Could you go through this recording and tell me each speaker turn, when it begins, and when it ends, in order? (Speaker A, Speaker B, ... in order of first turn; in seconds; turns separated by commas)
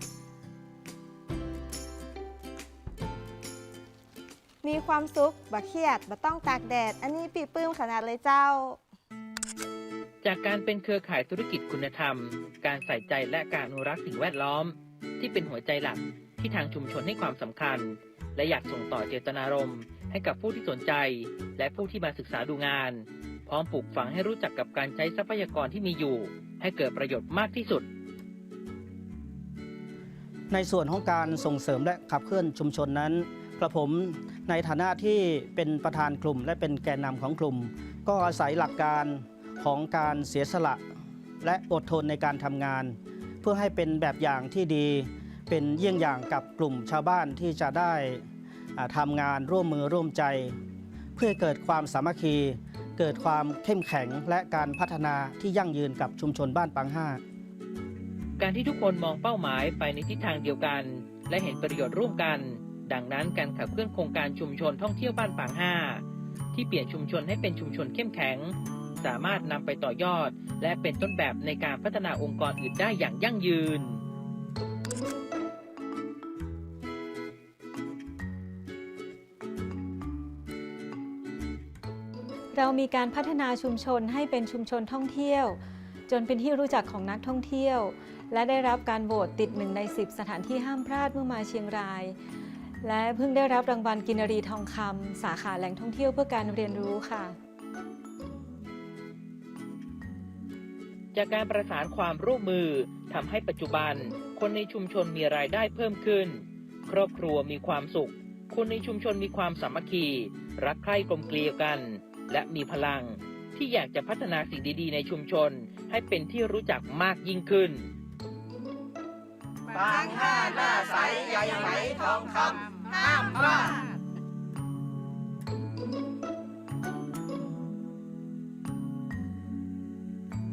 Speaker A: 4.6-8.8, Speaker B: 10.2-27.9, Speaker C: 30.5-40.8, Speaker C: 41.4-48.2, Speaker C: 48.8-50.5, Speaker C: 51.1-57.2, Speaker B: 58.4-74.0, Speaker D: 82.5-92.2, Speaker D: 92.8-97.3, Speaker B: 101.1-117.9, Speaker E: 119.7-123.8